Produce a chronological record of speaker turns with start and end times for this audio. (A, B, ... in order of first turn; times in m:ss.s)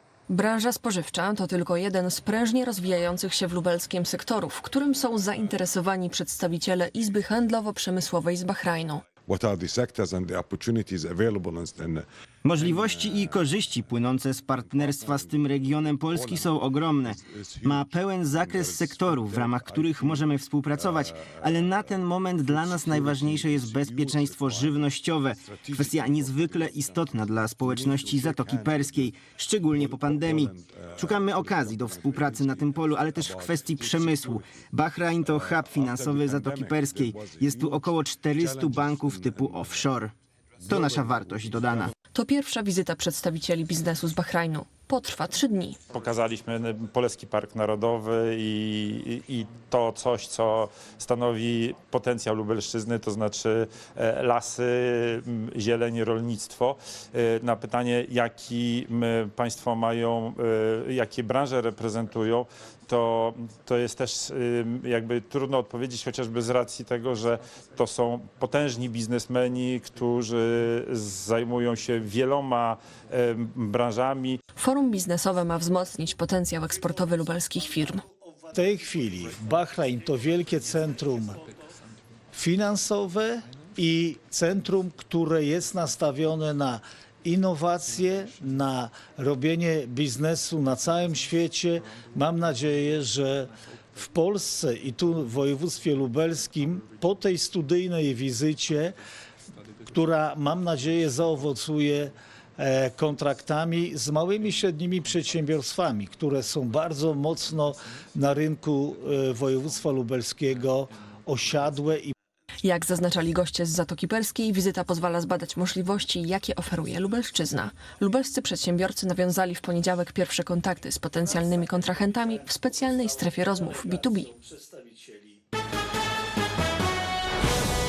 0:00.3-0:09.0 A
0:09.3-0:13.7 B
0:12.4-0:40.1 C
0:14.7-0:34.7 B
0:35.2-0:39.9 B
0:40.6-0:41.9 B
0:40.6-0:41.9 C
0:42.1-0:45.8 A
0:45.9-1:14.4 D
1:14.6-1:18.0 A
1:18.5-1:21.5 E
1:22.3-1:39.0 E
1:39.9-1:52.1 E
1:52.6-2:04.3 A
2:04.4-2:05.2 E